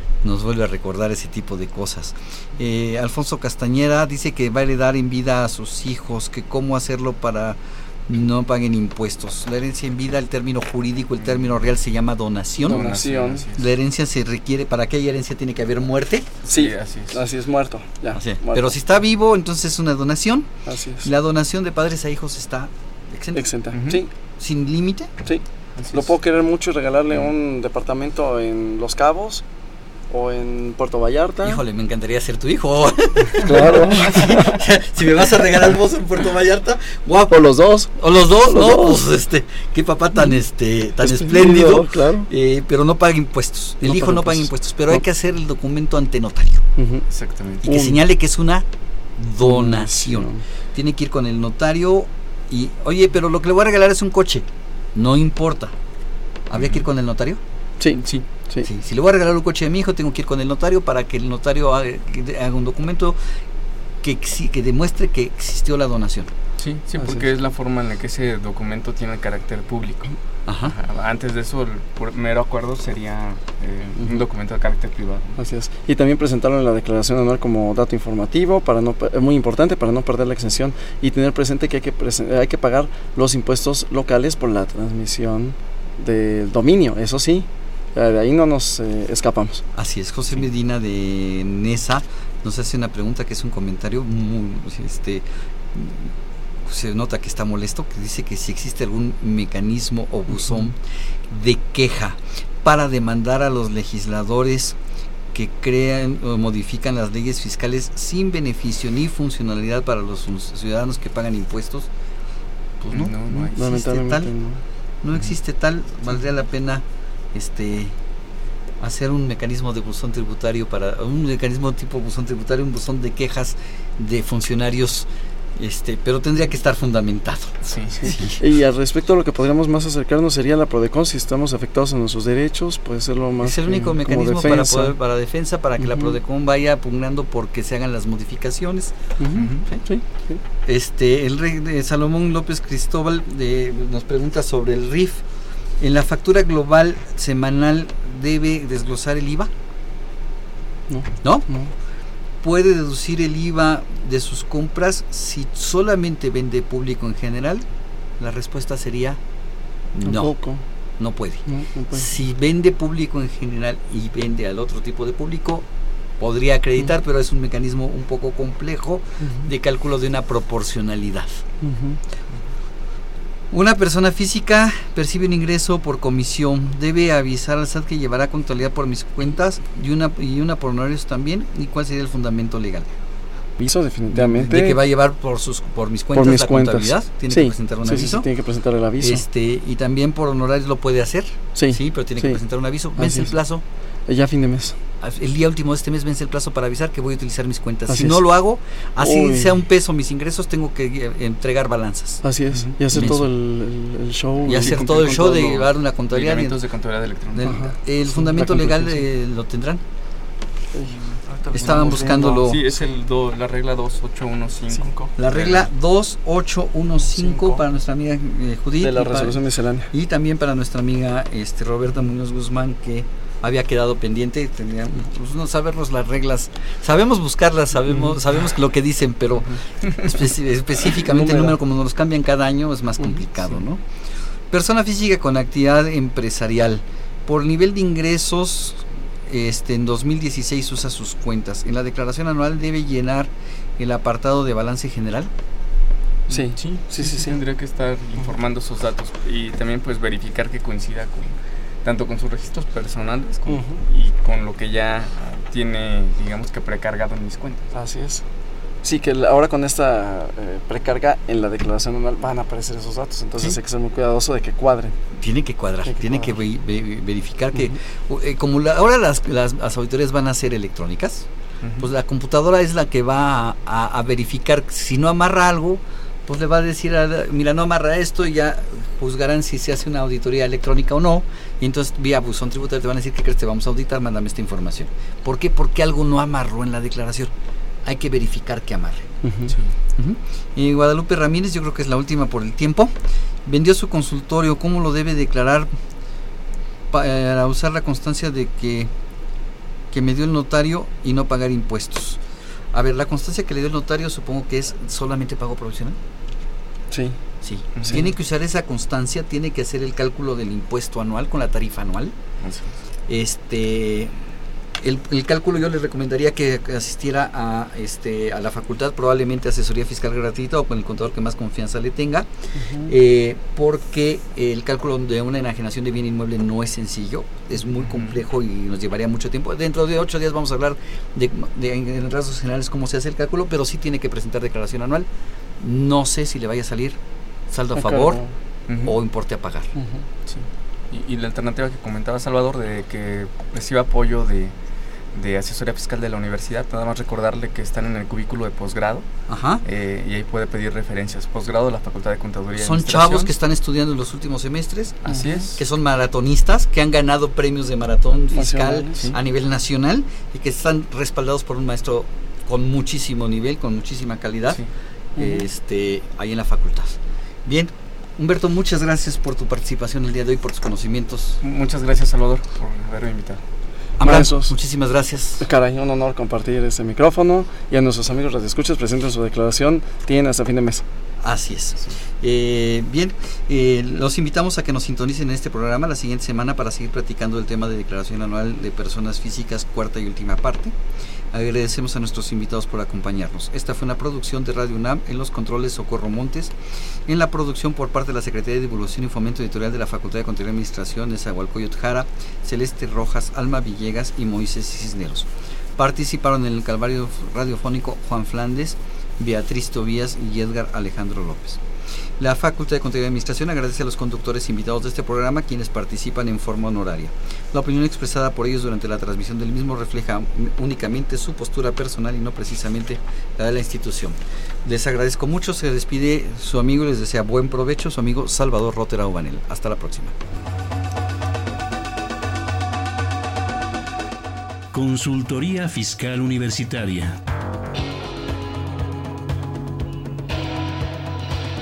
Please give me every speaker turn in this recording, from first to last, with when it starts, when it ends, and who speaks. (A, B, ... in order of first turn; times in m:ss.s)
0:00.2-0:12.9 A
0:12.6-0:13.4 B
0:12.6-0:13.7 C
0:13.5-0:16.3 A
0:16.4-0:17.2 C
0:16.5-0:18.7 B
0:18.1-0:20.5 A
0:20.7-0:21.1 B
0:21.0-0:23.4 A
0:23.3-0:24.1 B
0:23.7-0:24.0 C
0:24.4-0:25.1 A
0:25.2-0:29.4 B
0:25.8-0:26.1 C
0:30.1-0:31.6 B
0:31.4-0:37.4 A
0:33.4-0:34.4 B
0:37.3-0:39.0 B
0:38.0-0:46.6 A
0:41.0-0:42.3 B
0:43.8-0:45.0 B
0:46.8-0:47.0 B
0:47.1-0:47.6 C
0:47.6-0:48.0 B
0:47.6-0:55.7 A
0:49.4-0:50.4 B
0:56.5-0:57.4 A
0:56.5-0:56.8 C
0:57.8-0:58.7 B
0:58.6-1:03.2 A
1:04.0-1:06.3 A
1:06.6-1:15.4 C
1:07.0-1:07.2 B
1:10.4-1:10.7 A
1:15.4-1:29.6 B
1:29.7-1:44.8 A
1:45.3-1:51.9 A
1:52.8-1:54.3 A
1:52.9-1:53.6 C
1:53.5-1:54.6 B
1:55.0-1:58.0 A
1:58.8-2:08.4 A
2:07.6-2:08.3 C
2:08.4-2:14.9 B
2:13.4-2:18.9 A
2:15.8-2:16.2 B
2:19.2-2:20.4 B
2:19.3-2:19.6 C
2:20.6-2:25.2 A
2:25.8-2:29.5 A
2:30.9-2:31.7 B
2:31.2-2:31.5 A
2:32.4-2:37.6 A
2:38.2-2:39.2 A
2:39.9-2:40.3 A
2:40.0-2:40.6 B
2:41.0-2:45.6 A
2:41.5-2:42.1 B
2:46.2-2:51.4 A
2:49.2-2:49.5 B
2:51.6-2:52.0 B
2:53.5-3:02.9 A
3:03.6-3:04.8 B
3:04.1-3:08.3 A
3:06.1-3:09.2 B
3:09.0-3:13.6 A
3:11.5-3:12.4 B
3:13.0-3:13.3 B
3:14.1-3:14.8 B
3:15.0-3:22.2 A
3:17.9-3:18.2 B
3:19.0-3:19.6 B
3:22.2-3:25.1 B
3:22.9-3:23.3 A
3:24.4-3:26.6 A
3:24.6-3:27.6 C
3:27.3-3:29.8 A
3:27.4-3:29.0 B
3:30.7-3:32.4 B
3:30.9-3:35.7 C
3:31.5-3:32.6 A
3:35.2-3:53.8 A
3:37.1-3:37.6 C
3:38.8-3:39.9 B
3:51.0-3:51.6 B
3:54.5-4:05.3 A
4:06.3-4:07.4 B
4:06.3-4:17.7 C
4:13.5-4:13.8 B
4:17.7-4:18.2 B
4:18.8-4:25.0 B
4:25.1-4:31.3 A
4:25.8-4:26.4 B
4:31.6-4:31.9 C
4:31.8-4:47.3 A
4:47.8-4:49.1 A
4:49.2-4:49.5 B
4:49.5-4:49.7 C
4:50.0-4:52.9 A
4:53.4-4:55.7 A
4:56.9-4:58.9 A
4:59.9-5:02.2 A
5:02.7-5:06.0 A
5:06.9-5:07.2 B
5:07.4-5:12.1 A
5:07.7-5:08.0 C
5:12.4-5:12.7 C
5:13.1-5:14.1 A
5:14.8-5:22.3 A
5:22.6-5:22.9 B
5:22.8-5:35.1 A
5:27.6-5:28.2 C
5:35.6-5:37.0 A
5:37.5-5:38.2 A
5:37.8-5:38.3 B
5:38.7-5:39.0 C
5:38.8-5:39.7 A
5:39.7-5:40.0 B
5:40.3-5:44.5 C
5:45.1-5:49.1 C
5:49.3-5:49.6 A
5:49.6-5:53.3 C
5:52.6-6:04.6 A
5:55.0-5:55.6 C
5:55.1-5:55.5 B
5:58.3-5:59.0 B
6:05.2-6:05.4 B
6:05.2-6:11.4 A
6:11.4-6:13.4 C
6:14.0-6:15.4 A
6:14.0-6:14.5 B
6:15.4-6:20.8 B
6:21.2-6:30.8 A
6:31.3-6:36.5 A
6:37.0-6:51.6 A
6:52.2-7:10.1 A
7:14.7-7:17.2 D